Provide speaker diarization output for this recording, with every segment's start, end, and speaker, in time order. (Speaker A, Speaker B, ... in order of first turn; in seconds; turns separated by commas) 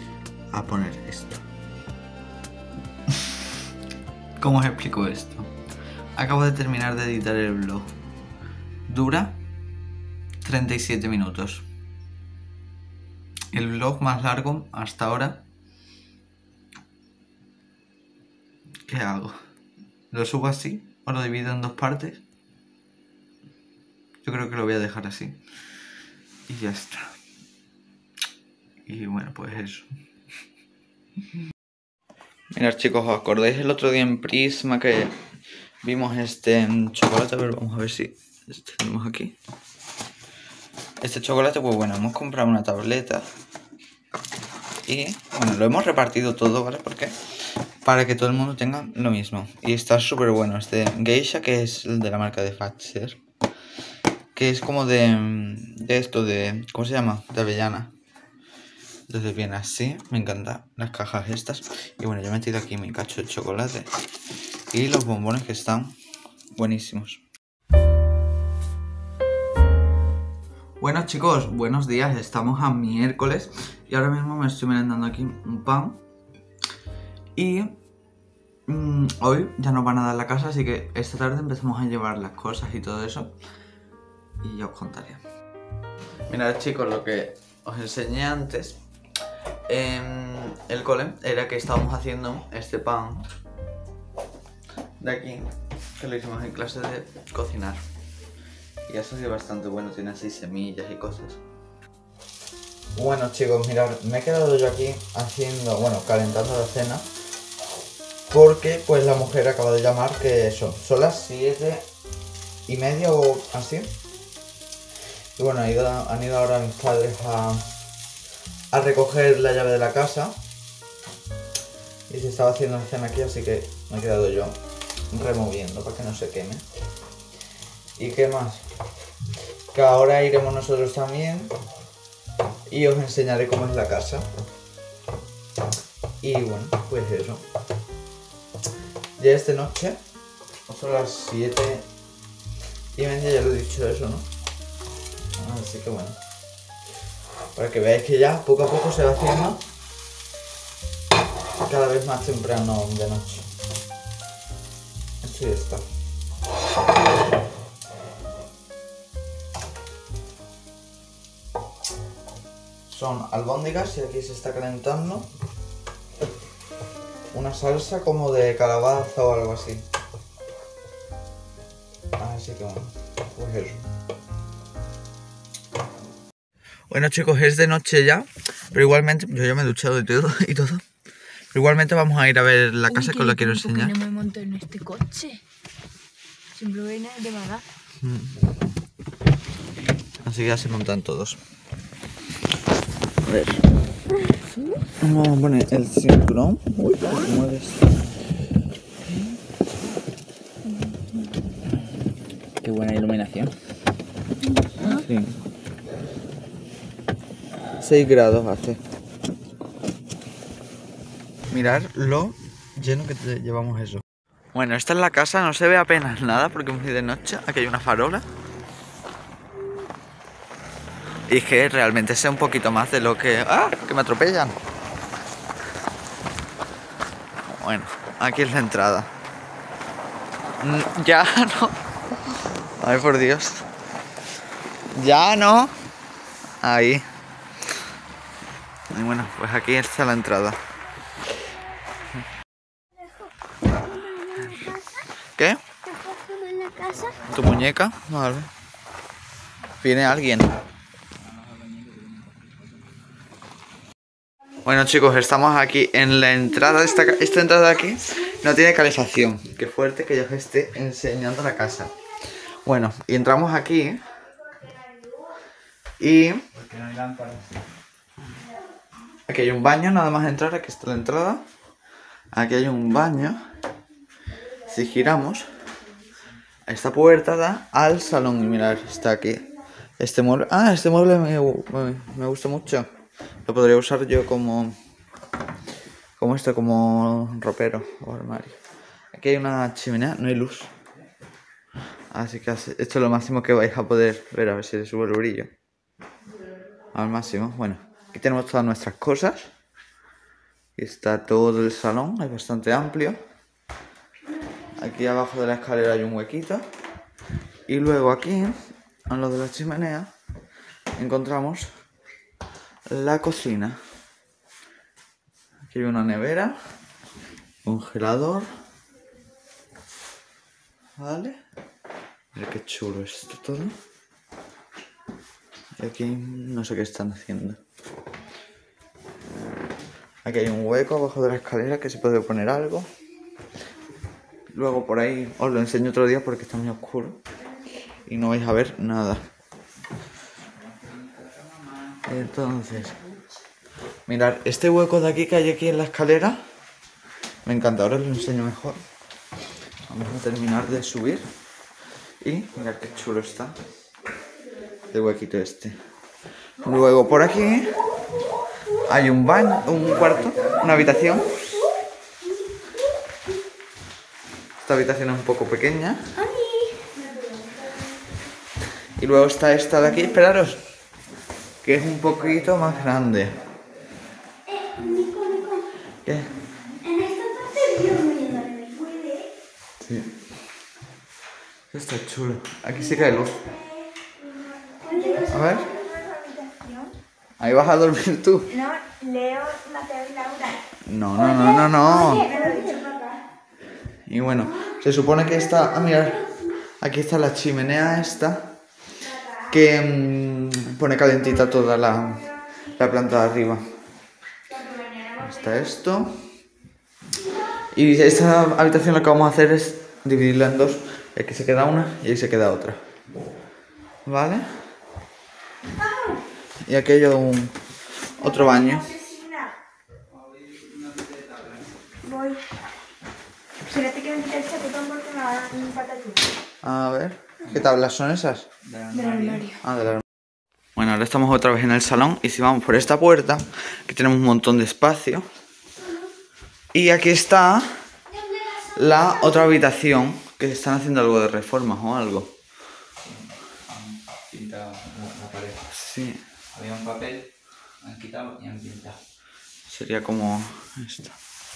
Speaker A: 0.5-1.4, Speaker A: 4.4-5.5, Speaker A: 6.2-7.9, Speaker A: 8.9-9.4, Speaker A: 10.4-11.6, Speaker A: 13.5-15.4, Speaker A: 18.9-19.4, Speaker A: 20.1-22.2, Speaker A: 24.2-25.4, Speaker A: 26.5-27.1, Speaker A: 28.9-29.9, Speaker A: 32.5-35.1, Speaker A: 35.8-39.3, Speaker A: 41.0-43.2, Speaker A: 44.8-47.2, Speaker A: 47.8-53.2, Speaker A: 54.3-57.9, Speaker A: 59.1-63.9, Speaker A: 64.7-66.0, Speaker A: 66.6-67.2, Speaker A: 70.8-76.0, Speaker A: 77.3-77.8, Speaker A: 78.7-83.3, Speaker A: 84.4-85.2, Speaker A: 86.3-88.8, Speaker A: 89.7-93.2, Speaker A: 95.0-97.8, Speaker A: 98.9-101.4, Speaker A: 102.9-107.1, Speaker A: 108.3-111.8, Speaker A: 112.7-113.9, Speaker A: 115.4-117.7, Speaker A: 118.7-120.4, Speaker A: 122.1-124.6, Speaker A: 125.1-126.6, Speaker A: 128.0-128.6, Speaker A: 129.7-131.5, Speaker A: 132.7-134.3, Speaker A: 136.2-137.4, Speaker A: 139.2-140.0, Speaker A: 140.7-141.9, Speaker A: 142.9-144.3, Speaker A: 145.4-146.2, Speaker A: 147.6-149.6, Speaker A: 151.6-153.5, Speaker A: 155.2-155.8, Speaker A: 162.9-165.3, Speaker A: 167.3-169.9, Speaker A: 172.2-173.8, Speaker A: 176.9-180.8, Speaker A: 181.5-183.9, Speaker B: 182.9-185.4, Speaker B: 186.6-187.6, Speaker A: 188.0-188.4, Speaker A: 190.2-191.4, Speaker A: 193.2-193.6, Speaker A: 195.0-197.9, Speaker B: 200.7-201.1, Speaker C: 202.6-203.5, Speaker A: 204.8-205.4, Speaker A: 207.8-208.8, Speaker A: 211.5-218.2, Speaker A: 221.3-224.6, Speaker A: 227.5-229.1, Speaker A: 230.6-231.8, Speaker A: 232.8-233.7, Speaker A: 234.9-235.8, Speaker A: 236.6-237.1, Speaker A: 238.9-240.6, Speaker D: 243.8-245.1, Speaker D: 245.8-247.2, Speaker C: 247.1-247.5, Speaker A: 247.3-248.5, Speaker A: 249.8-250.6, Speaker C: 251.1-253.0, Speaker A: 254.6-261.9, Speaker D: 256.6-258.2, Speaker A: 262.6-264.1, Speaker A: 266.0-266.4, Speaker C: 266.5-267.7, Speaker A: 269.3-271.4, Speaker A: 272.3-273.4, Speaker A: 274.6-275.5, Speaker A: 276.7-279.5, Speaker A: 280.0-282.9, Speaker A: 283.4-284.8, Speaker A: 286.2-288.6, Speaker A: 289.1-290.7, Speaker A: 292.1-295.5, Speaker A: 296.9-299.5, Speaker A: 300.8-303.2, Speaker A: 304.8-306.6, Speaker A: 307.7-308.6, Speaker A: 309.1-310.1, Speaker A: 310.9-311.7, Speaker A: 312.9-313.8, Speaker A: 315.7-316.6, Speaker A: 317.6-318.5, Speaker A: 321.0-321.4, Speaker A: 322.3-323.8, Speaker A: 325.8-327.6, Speaker A: 330.2-332.9, Speaker A: 334.5-337.2, Speaker A: 338.1-339.2, Speaker C: 340.4-343.2, Speaker A: 342.1-342.9, Speaker A: 344.1-346.4, Speaker A: 347.4-348.8, Speaker A: 349.9-351.3, Speaker A: 352.2-353.6, Speaker C: 352.6-353.6, Speaker A: 354.9-355.8, Speaker A: 356.6-357.8, Speaker A: 358.9-361.4, Speaker C: 359.6-361.1, Speaker A: 364.6-366.1, Speaker B: 366.2-367.7, Speaker A: 369.0-370.6, Speaker A: 371.6-373.4, Speaker C: 371.9-373.9, Speaker D: 374.4-375.7, Speaker A: 376.1-376.3, Speaker D: 376.8-379.3, Speaker A: 379.8-380.1, Speaker A: 381.7-383.4, Speaker D: 382.8-385.7, Speaker B: 384.9-386.9, Speaker A: 385.3-385.7, Speaker A: 387.4-388.5, Speaker B: 388.5-390.6, Speaker A: 390.8-392.2, Speaker D: 391.2-392.9, Speaker B: 391.8-393.2, Speaker A: 394.1-396.3, Speaker D: 394.5-396.5, Speaker A: 396.8-398.6, Speaker B: 399.2-399.5, Speaker A: 399.5-403.7, Speaker B: 404.5-405.7, Speaker A: 405.2-406.2, Speaker A: 407.7-412.8, Speaker A: 414.1-414.5, Speaker B: 415.8-416.2, Speaker A: 416.6-417.6, Speaker A: 418.2-418.9, Speaker B: 418.2-419.6, Speaker C: 420.1-421.8, Speaker B: 422.0-422.4, Speaker B: 423.6-426.3, Speaker A: 426.6-428.5, Speaker C: 428.6-429.4, Speaker B: 428.9-429.6, Speaker A: 429.6-430.0, Speaker A: 430.8-435.3, Speaker D: 435.7-436.1, Speaker A: 436.7-437.7, Speaker D: 438.1-439.6, Speaker A: 438.7-442.3, Speaker C: 443.1-445.6, Speaker A: 445.7-446.2, Speaker C: 446.5-447.3, Speaker C: 447.8-449.0, Speaker A: 449.7-451.2